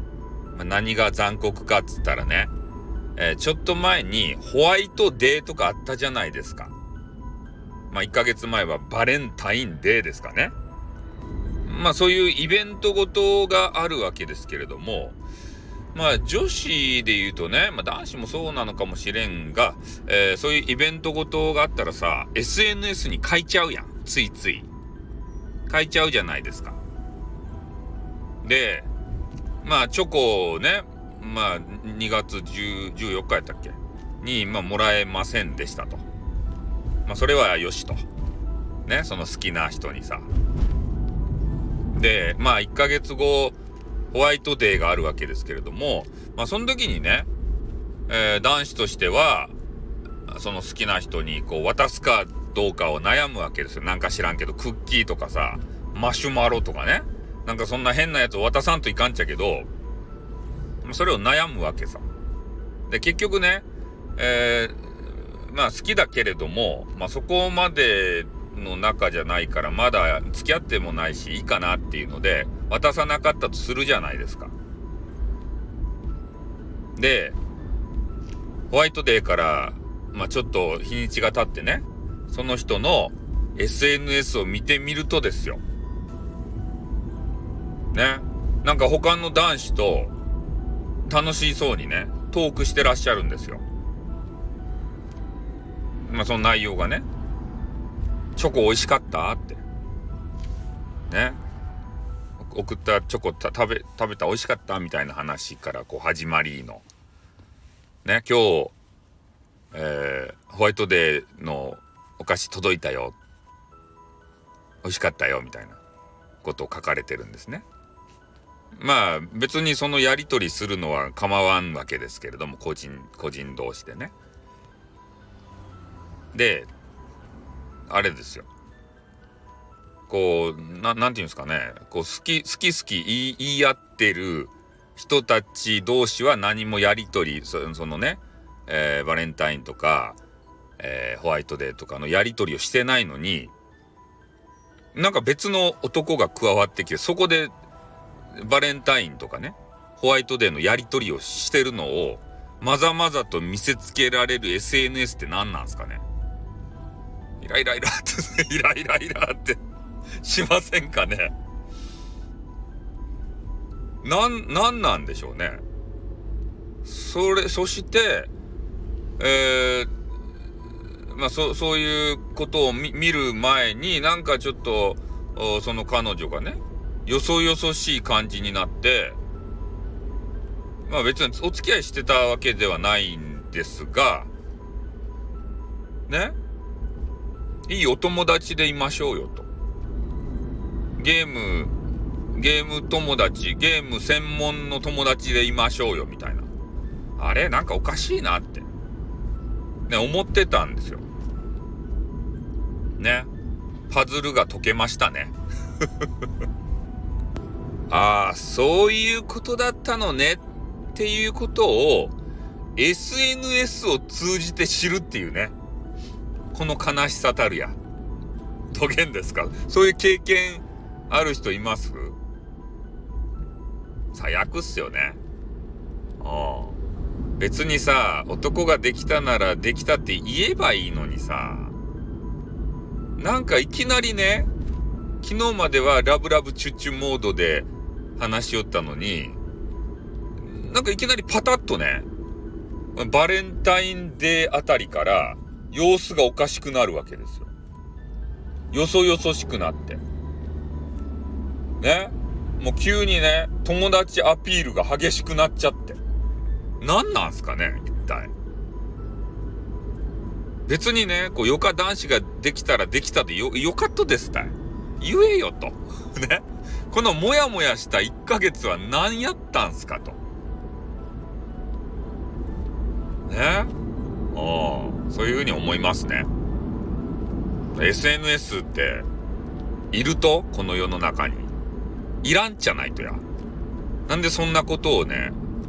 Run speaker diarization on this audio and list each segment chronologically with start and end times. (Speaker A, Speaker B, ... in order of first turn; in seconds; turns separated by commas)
Speaker A: 0.5-2.5, Speaker A: 3.2-6.7, Speaker A: 7.9-10.6, Speaker A: 11.7-15.2, Speaker A: 15.9-24.7, Speaker A: 25.7-26.8, Speaker A: 28.4-28.9, Speaker A: 29.6-36.0, Speaker A: 37.1-38.0, Speaker A: 38.9-40.3, Speaker A: 41.9-43.6, Speaker A: 44.1-47.3, Speaker A: 48.1-49.5, Speaker A: 50.3-59.7, Speaker A: 60.8-62.0, Speaker A: 62.9-63.7, Speaker A: 64.2-74.5, Speaker A: 77.0-77.4, Speaker A: 78.7-85.6, Speaker A: 87.9-90.1, Speaker A: 91.1-93.6, Speaker A: 96.0-97.1, Speaker A: 98.4-99.6, Speaker A: 101.1-101.4, Speaker A: 102.4-106.8, Speaker A: 108.0-108.8, Speaker A: 109.7-113.2, Speaker A: 114.8-115.8, Speaker A: 116.4-117.7, Speaker A: 118.8-124.1, Speaker A: 126.3-126.7, Speaker A: 127.9-128.5, Speaker A: 130.1-140.2, Speaker A: 140.8-143.5, Speaker A: 144.9-147.5, Speaker A: 148.3-156.0, Speaker A: 157.4-159.6, Speaker A: 160.2-161.3, Speaker A: 164.0-165.6, Speaker A: 166.8-168.3, Speaker A: 169.2-169.9, Speaker A: 171.1-179.2, Speaker A: 180.9-184.3, Speaker A: 186.1-186.4, Speaker A: 187.7-189.5, Speaker A: 191.0-191.7, Speaker A: 192.3-196.5, Speaker A: 197.2-198.7, Speaker A: 199.9-201.0, Speaker A: 203.0-203.3, Speaker A: 203.9-205.3, Speaker A: 207.9-212.1, Speaker A: 212.8-215.6, Speaker A: 216.5-217.8, Speaker A: 218.7-222.2, Speaker A: 224.1-225.2, Speaker A: 226.2-226.8, Speaker A: 227.4-231.8, Speaker A: 233.2-234.5, Speaker A: 235.2-239.4, Speaker A: 240.4-242.1, Speaker A: 242.9-247.5, Speaker A: 248.7-250.0, Speaker A: 251.8-256.0, Speaker A: 256.8-258.3, Speaker A: 260.7-270.2, Speaker A: 273.3-273.7, Speaker A: 274.3-276.3, Speaker A: 277.7-279.1, Speaker A: 279.9-281.5, Speaker A: 282.2-283.2, Speaker A: 284.1-285.4